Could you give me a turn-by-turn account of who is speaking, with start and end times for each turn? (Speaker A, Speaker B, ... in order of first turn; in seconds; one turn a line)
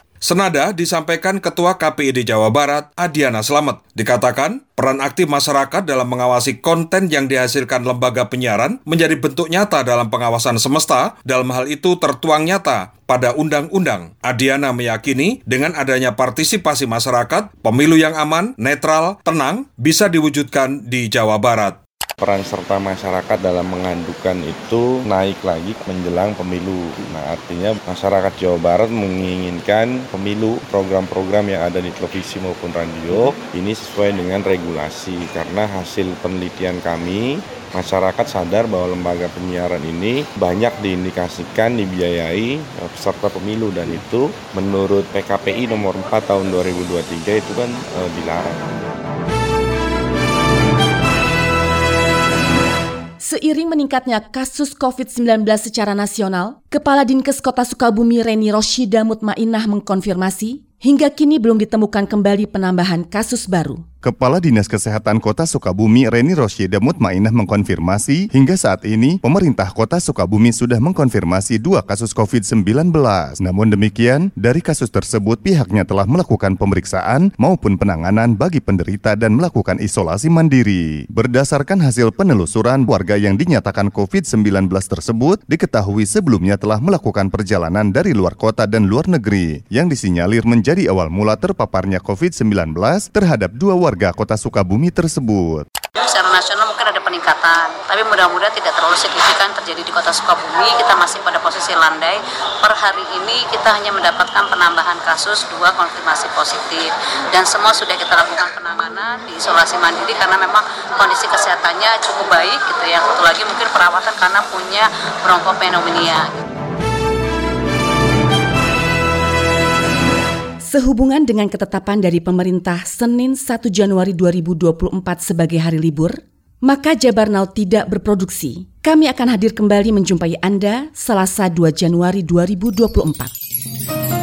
Speaker A: 0.2-21.8
Speaker B: 22.2-48.6
Speaker C: 53.2-63.8
Speaker D: 64.0-95.7
Speaker E: 96.0-116.4
Speaker C: 120.6-133.3